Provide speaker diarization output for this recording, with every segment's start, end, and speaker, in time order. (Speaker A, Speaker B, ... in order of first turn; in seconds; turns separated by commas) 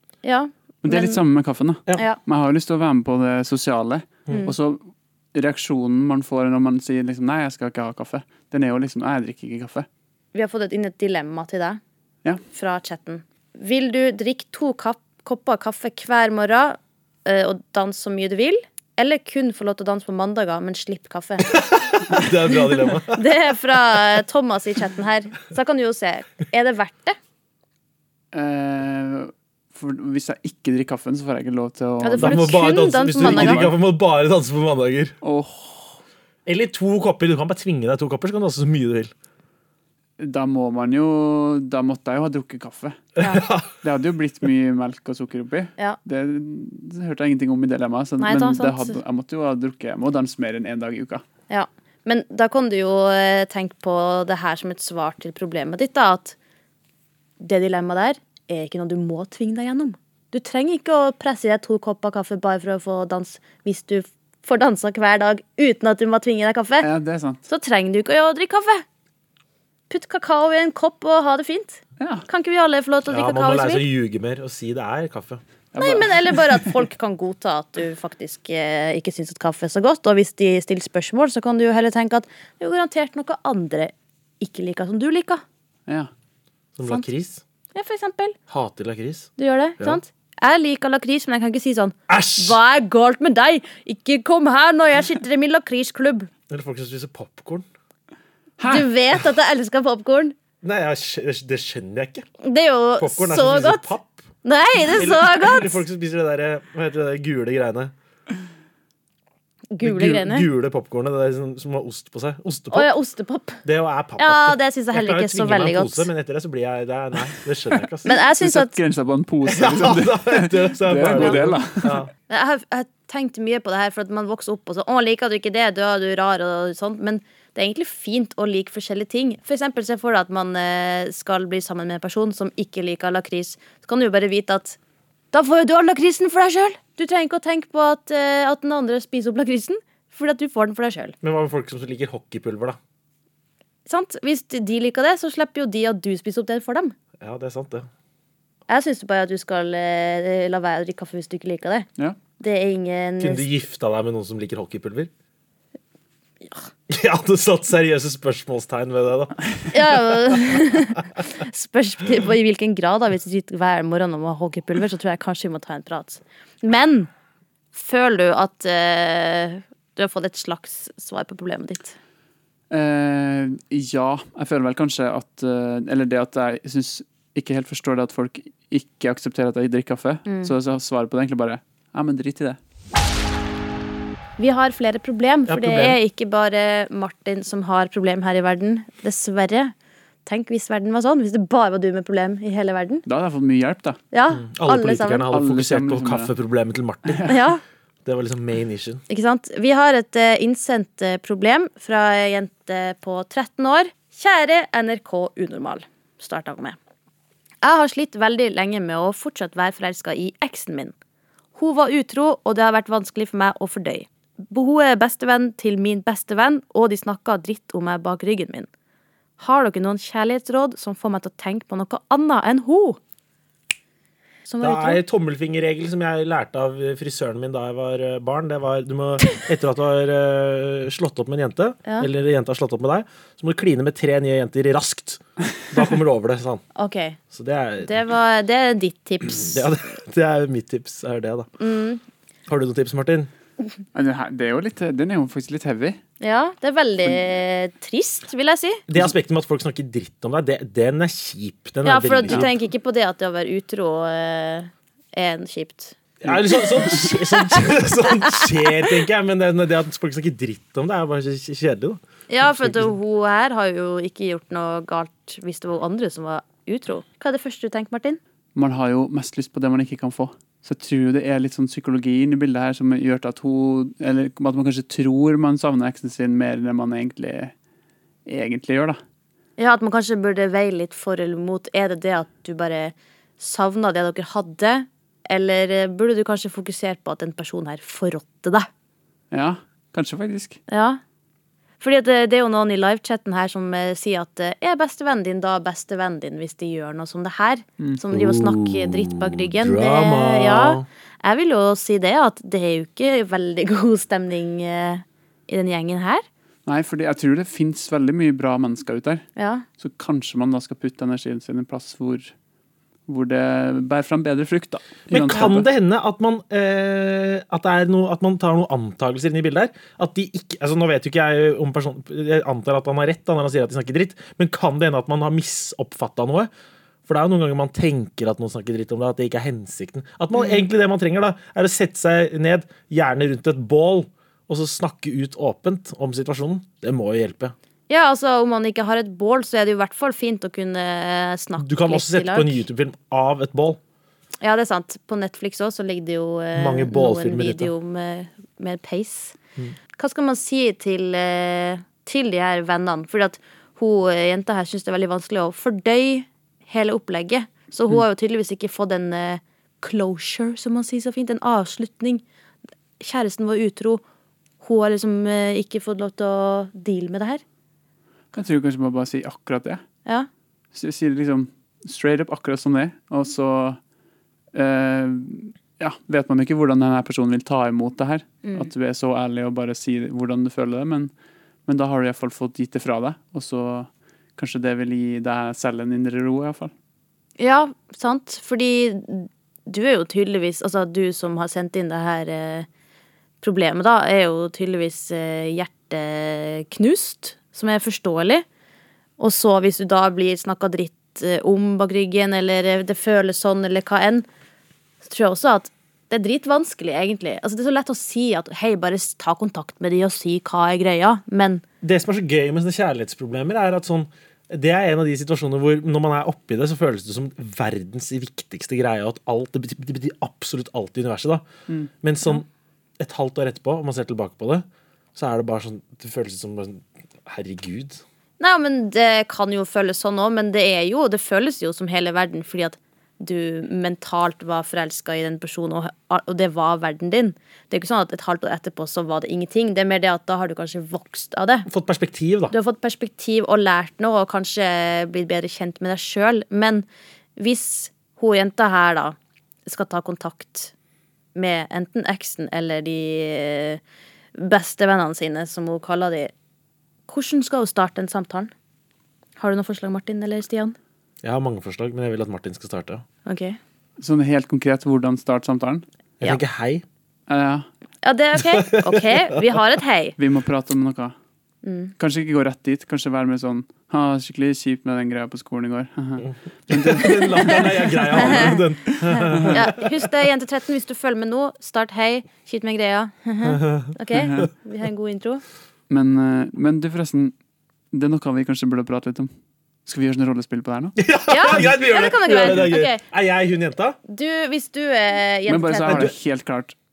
Speaker A: 0.2-1.2, Speaker B: 0.8-9.9, Speaker A: 10.3-11.8, Speaker A: 12.5-21.6, Speaker C: 21.5-23.2, Speaker A: 23.0-27.2, Speaker B: 28.3-32.5, Speaker A: 32.0-33.7, Speaker C: 32.2-35.1, Speaker B: 33.2-33.7, Speaker B: 35.2-36.0, Speaker C: 36.5-39.1, Speaker B: 40.2-43.0, Speaker C: 43.2-43.7, Speaker A: 43.2-43.5, Speaker B: 43.6-51.2, Speaker A: 48.2-49.0, Speaker A: 51.5-56.4, Speaker A: 57.4-66.9, Speaker B: 66.8-67.4, Speaker A: 67.5-68.8, Speaker A: 69.9-73.8, Speaker B: 72.0-72.2, Speaker C: 73.1-75.4, Speaker B: 75.7-76.7, Speaker A: 75.8-85.4, Speaker C: 86.8-87.4, Speaker A: 87.7-88.4, Speaker C: 88.5-90.0, Speaker A: 89.4-96.3, Speaker C: 92.1-92.6, Speaker C: 96.5-97.7, Speaker B: 98.6-98.9, Speaker A: 98.7-100.3, Speaker C: 100.6-102.2, Speaker A: 102.4-105.8, Speaker C: 103.0-104.3, Speaker C: 104.9-107.9, Speaker A: 109.7-110.5, Speaker C: 109.8-112.9, Speaker A: 112.7-113.6, Speaker C: 113.6-118.1, Speaker A: 114.2-116.1, Speaker A: 118.0-118.8, Speaker B: 118.2-122.0, Speaker C: 119.4-122.1, Speaker A: 121.2-121.4, Speaker A: 122.3-134.8, Speaker A: 135.3-141.1, Speaker C: 141.2-142.8, Speaker A: 143.9-146.9, Speaker C: 147.2-147.9, Speaker A: 148.7-151.9, Speaker A: 152.4-153.5, Speaker C: 153.2-155.1, Speaker C: 156.9-160.7, Speaker A: 159.7-167.1, Speaker A: 167.7-172.0, Speaker B: 172.7-182.6, Speaker A: 180.3-180.5, Speaker A: 184.4-189.7, Speaker C: 185.5-186.0, Speaker A: 190.2-193.0, Speaker B: 193.1-194.0, Speaker A: 194.1-195.3, Speaker C: 194.3-197.3, Speaker B: 195.3-196.3, Speaker B: 197.1-197.4, Speaker A: 197.2-197.6, Speaker C: 198.0-199.0, Speaker A: 199.1-206.8, Speaker A: 207.6-210.9, Speaker A: 211.6-218.7, Speaker A: 219.4-223.0, Speaker A: 224.4-225.0, Speaker C: 224.6-236.6, Speaker A: 236.8-237.2, Speaker C: 237.3-237.9, Speaker A: 237.8-239.6, Speaker C: 239.3-241.5, Speaker A: 241.6-242.0, Speaker C: 242.5-243.3, Speaker B: 243.9-246.0, Speaker A: 246.2-248.8, Speaker C: 248.9-252.5, Speaker A: 251.8-257.2, Speaker C: 256.2-262.9, Speaker A: 262.3-268.2, Speaker B: 268.5-277.5, Speaker B: 278.2-279.0, Speaker A: 279.6-288.7, Speaker B: 289.3-290.6, Speaker A: 290.7-291.0, Speaker A: 291.8-306.2, Speaker C: 298.1-300.9, Speaker B: 306.6-309.3, Speaker A: 309.4-309.6, Speaker B: 309.8-312.3, Speaker B: 313.1-315.7, Speaker C: 315.1-326.5, Speaker C: 327.1-337.5, Speaker A: 330.3-330.6, Speaker A: 337.9-342.6, Speaker C: 341.6-343.8, Speaker A: 344.4-349.4, Speaker C: 346.5-347.7, Speaker A: 349.9-362.2, Speaker A: 363.0-364.0, Speaker A: 364.6-367.4, Speaker B: 368.3-369.8, Speaker B: 370.7-373.8, Speaker B: 374.5-381.1, Speaker B: 381.6-386.7, Speaker A: 387.4-392.7, Speaker A: 393.4-398.4, Speaker A: 399.2-404.3, Speaker A: 405.0-411.6, Speaker C: 411.8-421.4, Speaker C: 422.0-422.4, Speaker C: 423.0-428.0, Speaker A: 428.4-441.7, Speaker C: 441.7-442.5, Speaker A: 442.5-446.9, Speaker A: 447.4-450.7, Speaker A: 451.3-453.8, Speaker A: 454.3-456.3, Speaker A: 457.1-458.5, Speaker A: 459.4-460.8, Speaker C: 461.2-463.0, Speaker A: 463.2-463.6, Speaker B: 464.0-465.8, Speaker C: 466.2-466.8, Speaker B: 467.3-467.7, Speaker A: 468.0-470.1, Speaker C: 468.4-469.3, Speaker B: 470.2-471.1, Speaker A: 471.6-471.9, Speaker B: 472.0-477.8, Speaker C: 476.2-480.1, Speaker A: 477.4-485.4, Speaker B: 479.2-479.6, Speaker C: 483.4-483.9, Speaker B: 484.1-484.5, Speaker B: 485.9-487.3, Speaker B: 487.9-489.3, Speaker B: 489.9-490.9, Speaker C: 491.0-494.0, Speaker A: 491.3-493.0, Speaker A: 494.1-496.1, Speaker B: 495.5-496.7, Speaker C: 495.9-496.1